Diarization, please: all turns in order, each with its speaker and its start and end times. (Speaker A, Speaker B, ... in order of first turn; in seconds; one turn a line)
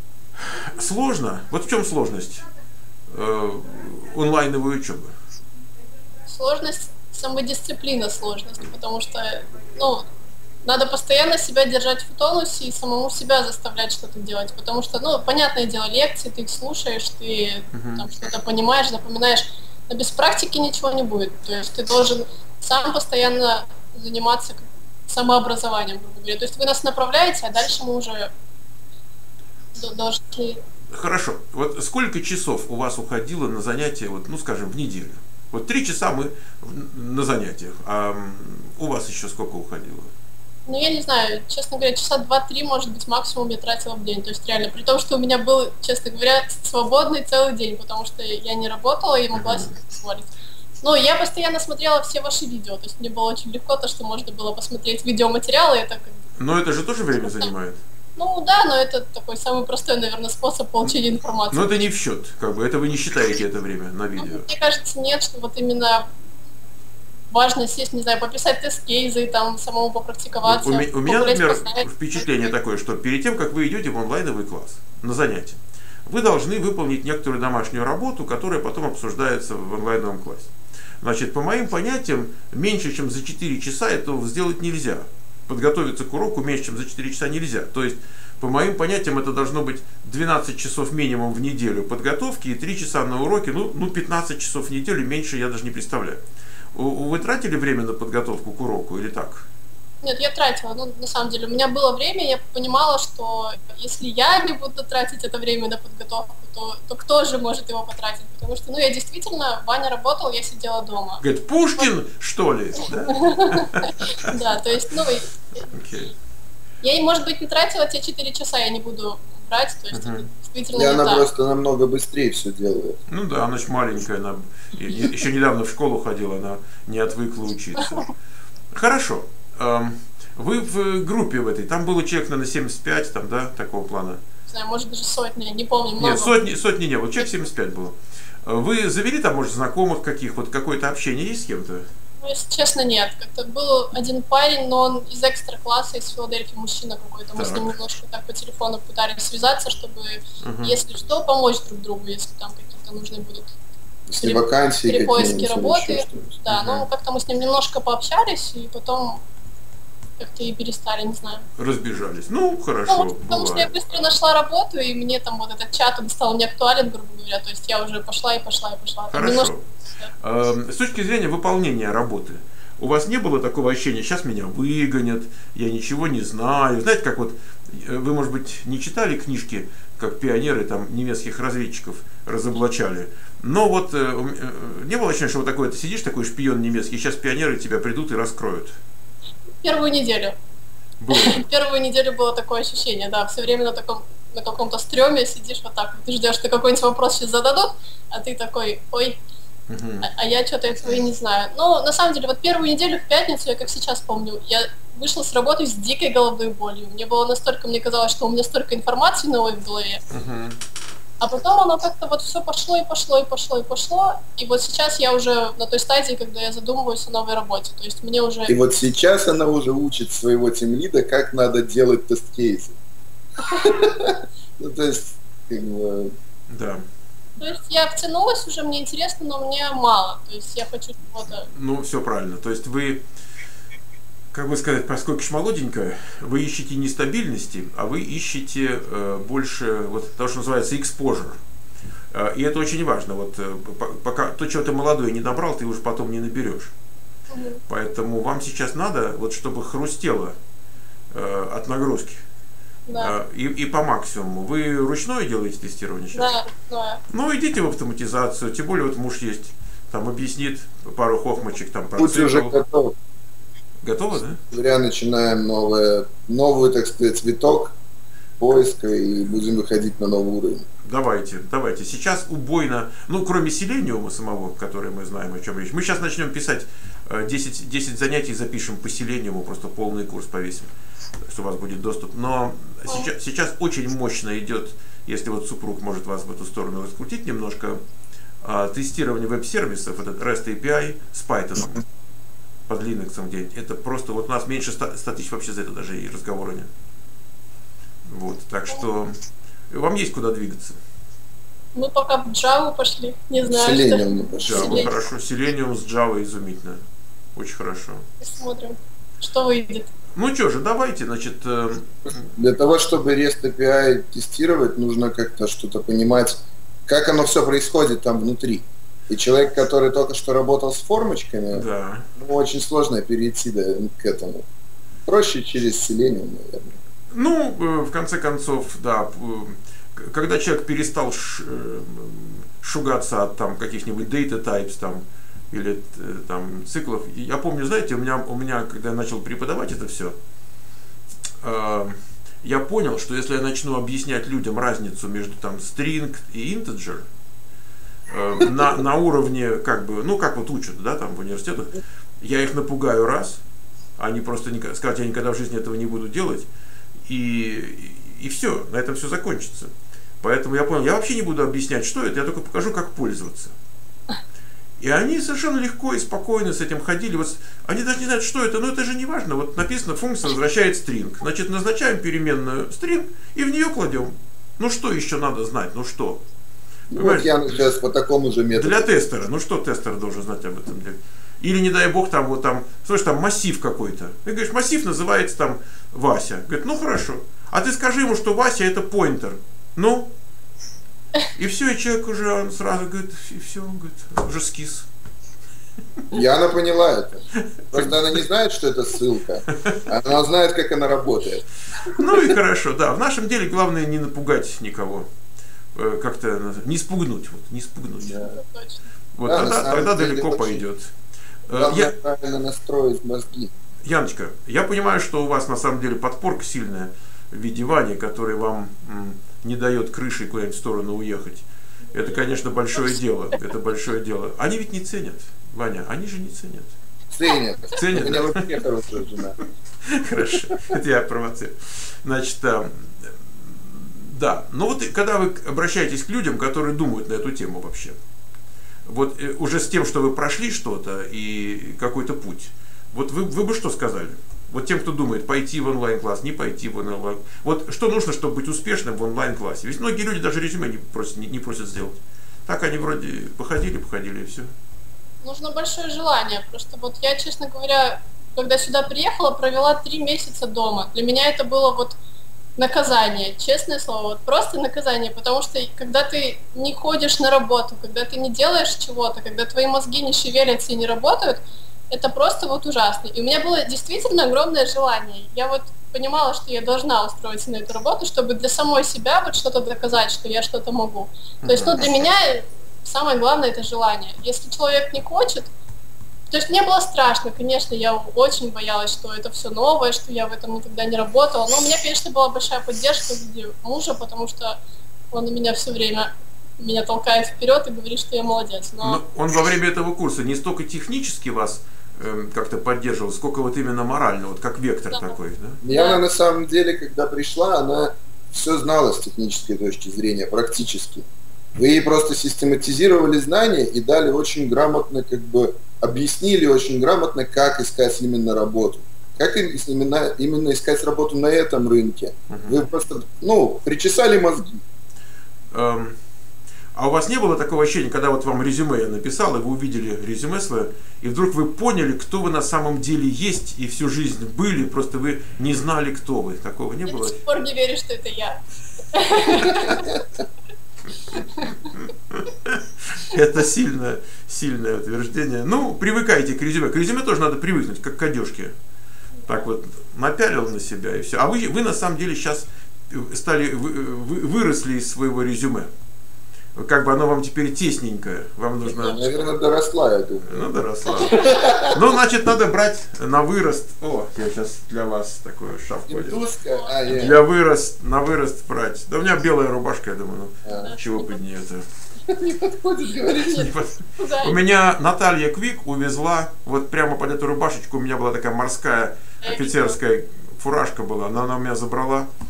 Speaker A: 0.3-2.4
Speaker A: 3.1-5.1
Speaker B: 6.3-10.0
Speaker B: 10.6-28.3
Speaker A: 17.7-18.1
Speaker B: 29.8-30.6
Speaker A: 30.9-40.1
Speaker B: 40.7-56.2
Speaker A: 49.3-49.7
Speaker A: 56.4-57.8
Speaker B: 57.2-57.5
Speaker B: 58.2-61.8
Speaker A: 61.5-64.5
Speaker B: 64.2-66.1
Speaker B: 67.3-71.8
Speaker A: 70.4-80.5
Speaker A: 81.0-96.2
Speaker A: 96.7-99.5
Speaker B: 100.0-111.2
Speaker A: 111.2-114.3
Speaker B: 113.1-115.7
Speaker A: 115.7-116.1
Speaker B: 116.8-121.2
Speaker A: 119.9-120.2
Speaker C: 120.7-123.0
Speaker A: 123.1-128.1
Speaker B: 127.8-128.1
Speaker A: 128.7-134.2
Speaker B: 134.5-136.3
Speaker A: 136.0-141.8
Speaker B: 142.2-153.5
Speaker A: 147.3-147.8
Speaker A: 150.4-150.8
Speaker C: 154.1-156.3
Speaker B: 154.2-159.2
Speaker A: 156.5-156.9
Speaker B: 160.2-161.4
Speaker A: 161.6-163.7
Speaker B: 162.9-170.1
Speaker A: 169.1-169.6
Speaker A: 170.2-188.7
Speaker B: 189.6-190.3
Speaker A: 191.0-191.5
Speaker B: 191.1-199.2
Speaker A: 199.7-200.1
Speaker B: 200.0-210.0
Speaker A: 210.1-210.6
Speaker B: 211.2-218.6
Speaker C: 218.5-222.8
Speaker C: 223.4-226.1
Speaker A: 226.5-226.8
Speaker B: 227.4-231.5
Speaker A: 231.5-233.0
Speaker A: 234.3-241.4
Speaker A: 242.1-246.7
Speaker B: 247.3-247.6
Speaker A: 247.7-250.3
Speaker A: 251.1-252.2
Speaker B: 252.9-253.1
Speaker A: 253.0-256.4
Speaker B: 256.1-257.0
Speaker A: 257.1-262.6
Speaker C: 262.0-262.9
Speaker A: 263.8-264.4
Speaker C: 264.5-267.8
Speaker C: 268.4-270.7
Speaker A: 270.8-280.7
Speaker A: 281.2-287.8
Speaker A: 288.4-291.8
Speaker A: 292.7-296.7
Speaker A: 298.1-299.1
Speaker A: 299.7-300.8
Speaker B: 301.7-304.9
Speaker C: 303.4-304.9
Speaker A: 304.4-306.8
Speaker A: 307.4-308.1
Speaker B: 308.2-309.9
Speaker A: 310.1-312.3
Speaker C: 312.4-321.6
Speaker A: 321.5-322.1
Speaker C: 322.1-324.4
Speaker C: 325.1-326.8
Speaker A: 327.1-340.1
Speaker A: 341.4-347.1
Speaker A: 348.1-353.4
Speaker A: 354.0-356.5
Speaker A: 357.1-363.5
Speaker A: 364.8-376.2
Speaker A: 376.9-377.5
Speaker C: 376.9-378.9
Speaker A: 378.5-390.1
Speaker A: 391.3-394.9
Speaker C: 396.1-401.5
Speaker A: 397.6-397.9
Speaker A: 401.9-405.1
Speaker A: 405.7-408.2
Speaker C: 408.0-408.3
Speaker B: 408.2-408.8
Speaker A: 409.1-410.9
Speaker C: 409.2-410.6
Speaker A: 411.5-411.9
Speaker C: 411.5-413.5
Speaker A: 413.8-426.7
Speaker B: 421.9-422.2
Speaker C: 427.1-429.4
Speaker A: 427.8-428.6
Speaker A: 429.8-437.9
Speaker A: 438.9-454.5
Speaker B: 455.2-461.9
Speaker B: 462.6-485.5
Speaker A: 481.4-482.0
Speaker B: 486.3-494.6
Speaker B: 495.1-499.0
Speaker A: 498.8-505.6
Speaker C: 505.6-524.6
Speaker B: 505.7-506.0
Speaker A: 522.3-522.6
Speaker A: 525.5-526.0
Speaker A: 526.7-537.2
Speaker B: 536.9-538.4
Speaker B: 538.9-540.0
Speaker A: 541.1-548.5
Speaker B: 541.3-541.7
Speaker A: 549.3-555.7
Speaker A: 556.5-559.1
Speaker C: 558.7-560.4
Speaker A: 560.2-566.2
Speaker C: 561.0-561.8
Speaker C: 565.9-567.2
Speaker B: 566.5-567.1
Speaker A: 566.9-571.6
Speaker C: 570.4-570.7
Speaker B: 570.5-571.2
Speaker C: 572.1-573.5
Speaker A: 573.1-582.1
Speaker B: 573.2-574.4
Speaker B: 579.2-579.8